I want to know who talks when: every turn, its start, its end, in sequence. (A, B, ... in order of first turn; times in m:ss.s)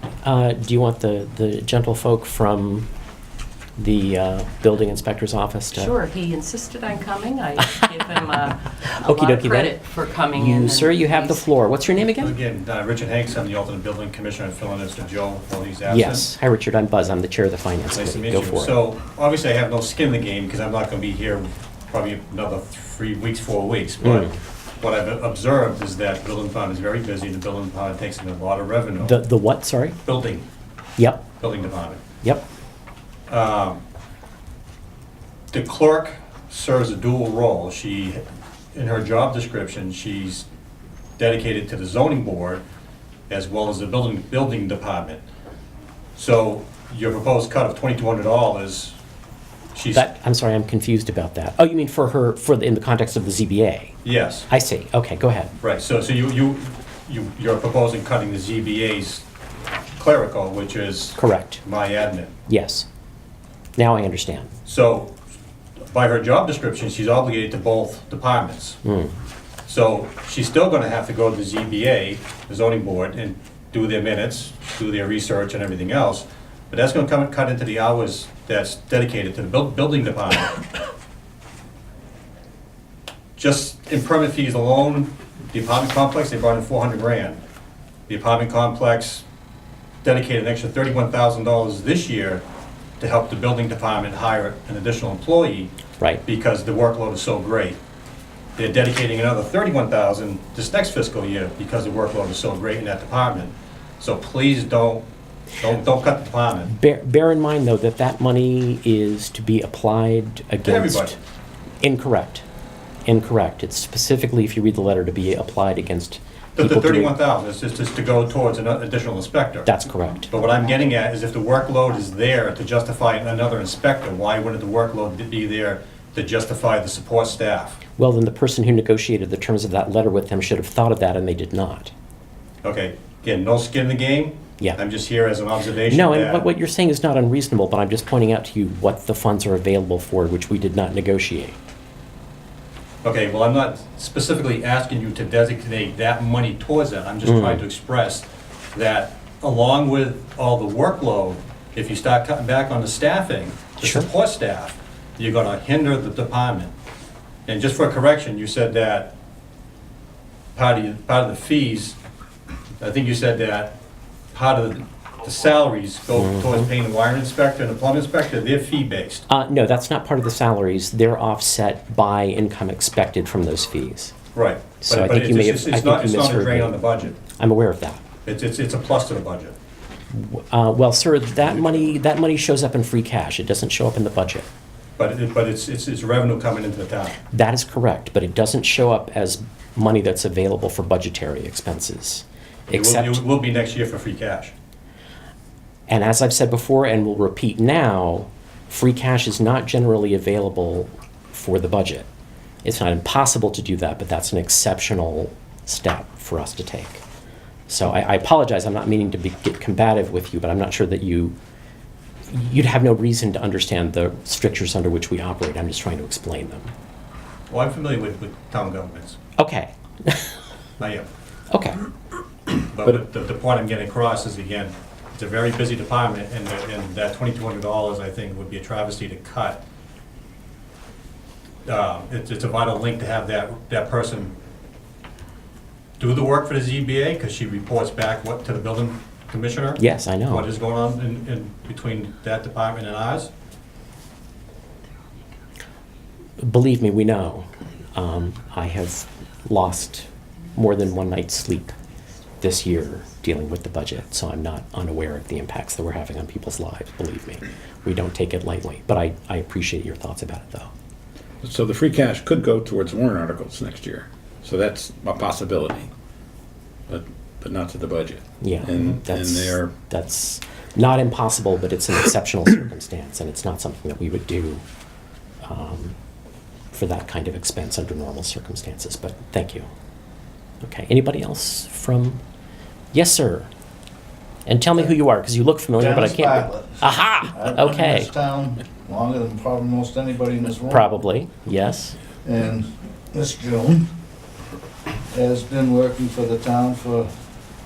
0:00.2-0:02.9 A
0:03.8-0:05.9 A
0:05.7-0:11.4 B
0:08.9-0:09.8 A
0:10.3-0:12.3 A
0:12.2-0:16.3 C
0:15.8-0:18.8 A
0:17.9-0:29.2 C
0:24.0-0:24.3 A
0:29.0-0:30.0 A
0:30.0-0:30.5 C
0:31.0-0:31.2 A
0:31.4-0:32.0 C
0:33.3-0:33.8 C
0:35.5-0:40.5 C
0:41.2-0:42.6 C
0:43.3-0:45.2 C
0:46.2-0:49.0 C
0:49.8-0:50.1 C
0:49.9-0:53.9 A
0:54.0-0:54.5 C
0:54.5-0:55.5 A
0:55.6-0:59.2 C
1:00.0-1:02.3 C
1:01.2-1:01.6 A
1:02.5-1:02.9 A
1:03.8-1:04.5 A
1:04.7-1:05.1 C
1:05.9-1:08.8 C
1:08.8-1:09.1 A
1:09.7-1:20.6 C
1:23.4-1:27.4 C
1:28.1-1:29.2 C
1:30.0-1:32.4 C
1:33.0-1:35.7 C
1:36.2-1:37.8 C
1:38.6-1:45.1 C
1:45.6-1:46.7 C
1:46.7-1:51.2 A
1:50.6-1:51.2 C
1:51.8-1:52.4 A
1:53.1-1:57.2 A
1:56.6-1:59.7 C
1:59.7-2:00.3 A
2:00.3-2:07.8 C
2:08.0-2:11.9 A
2:12.6-2:16.4 C
2:15.9-2:21.6 A
2:23.0-2:36.7 C
2:27.2-2:27.6 A
2:33.8-2:34.1 A
2:37.5-2:39.2 C
2:40.6-2:42.0 C
2:42.8-2:43.8 C
2:44.3-2:49.2 C
2:46.2-2:46.7 A
2:49.3-2:54.1 A
2:54.3-2:57.2 C
2:54.8-2:56.8 A
2:57.4-2:58.0 A
2:58.2-2:59.6 C
3:00.1-3:04.5 A
3:05.0-3:07.2 C
3:07.3-3:13.2 A
3:12.7-3:14.5 C
3:15.9-3:22.1 A
3:22.6-3:27.0 A
3:27.7-3:31.4 A
3:32.3-3:36.7 A
3:37.5-3:39.2 C
3:39.4-3:40.3 A
3:40.8-3:41.1 C
3:41.5-3:41.8 A
3:42.7-3:49.6 C
3:51.6-3:54.4 C
3:56.0-4:03.3 C
3:59.8-4:00.5 A
4:06.4-4:11.7 A
4:12.4-4:20.7 A
4:21.4-4:25.9 D
4:26.9-4:29.7 D
4:28.4-4:34.6 A
4:35.4-4:36.0 A
4:36.7-4:39.7 A
4:40.6-4:42.2 A
4:42.9-4:43.5 A
4:44.5-4:48.1 A
4:45.8-4:50.9 E
4:50.7-4:52.0 A
4:52.2-4:53.9 E
4:55.1-4:57.1 E